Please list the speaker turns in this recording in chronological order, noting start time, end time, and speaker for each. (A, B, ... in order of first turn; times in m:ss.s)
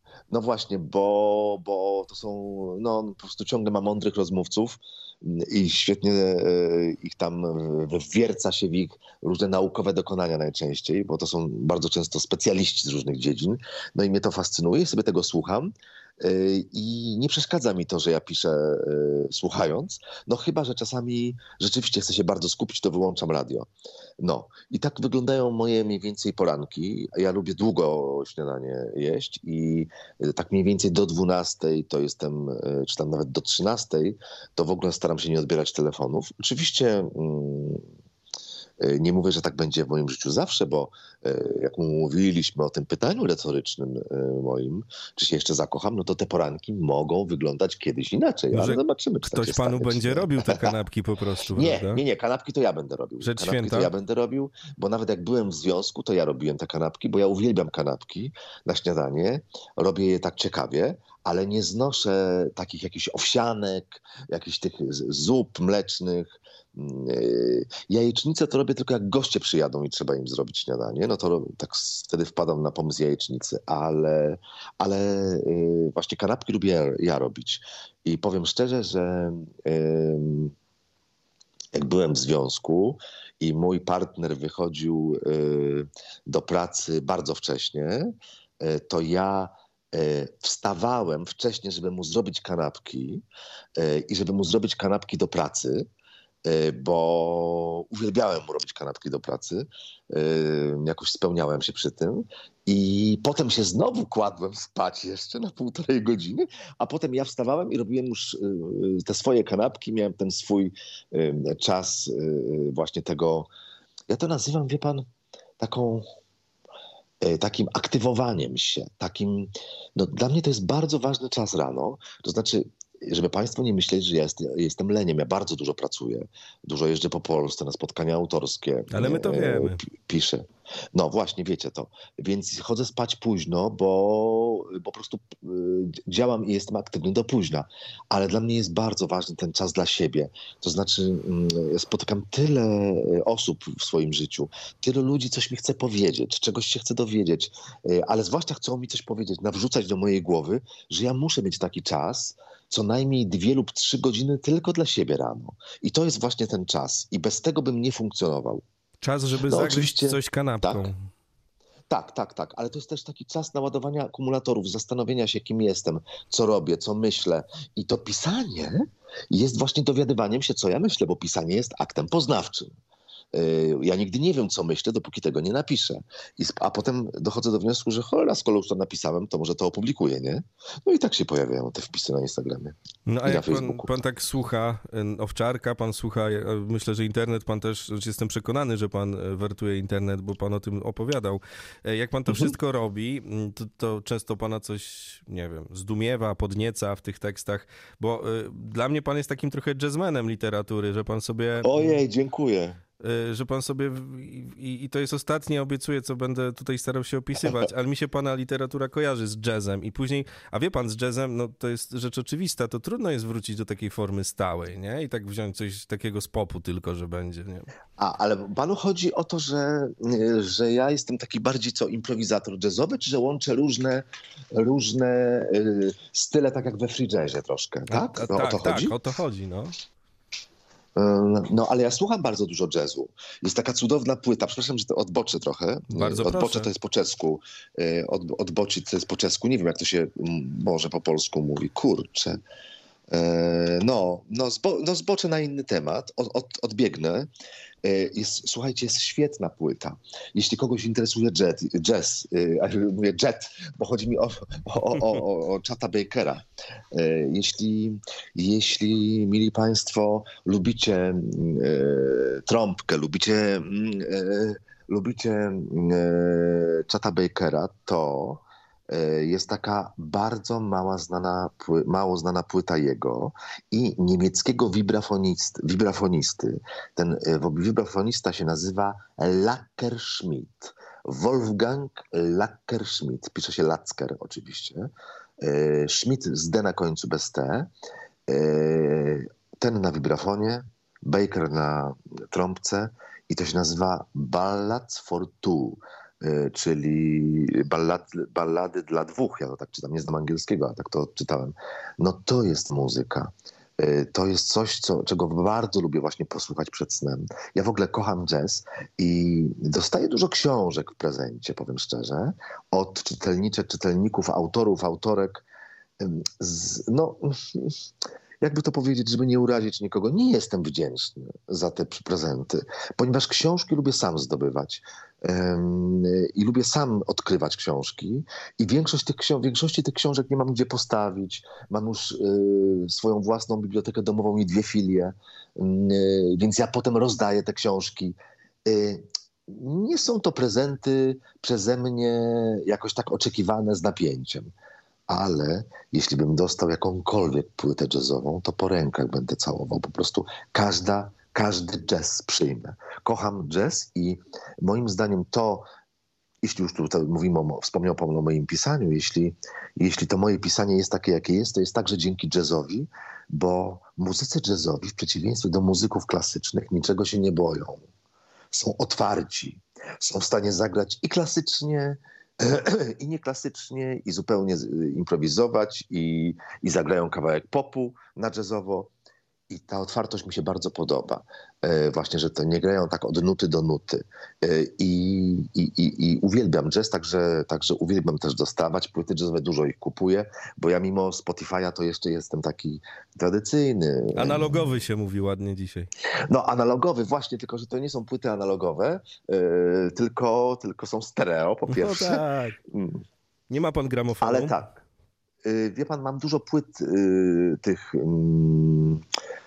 0:00.3-0:23.7 A
0:24.2-0:37.9 A
0:38.8-0:50.7 A
0:48.5-0:52.0 B
0:51.5-1:20.5 A
0:53.2-0:53.9 B
1:21.7-1:33.2 A
1:33.8-1:35.8 A
1:36.4-1:53.5 A
1:54.1-1:55.1 A
1:55.6-1:56.0 A
1:57.2-2:38.6 A
2:08.9-2:09.8 B
2:39.0-2:41.0 B
2:39.5-2:40.9 A
2:41.9-2:52.7 A
2:53.3-3:04.0 A
3:03.1-3:22.0 B
3:21.6-3:22.8 A
3:23.0-3:37.7 B
3:38.0-3:49.0 A
3:47.9-3:49.7 B
3:51.0-4:02.4 A
3:55.9-3:56.7 B
4:03.1-4:07.3 A
4:07.8-4:44.9 A
4:45.4-4:47.7 A
4:48.3-5:15.4 A
5:16.0-5:17.8 A
5:18.4-5:44.5 A
5:45.1-5:55.6 A
5:56.4-6:07.9 A
6:08.5-6:18.9 A
6:19.5-6:34.7 A
6:34.1-6:35.9 B
6:36.3-6:43.0 A
6:41.7-6:42.6 B
6:43.5-6:44.5 B
6:44.2-6:44.8 A
6:45.4-6:49.0 A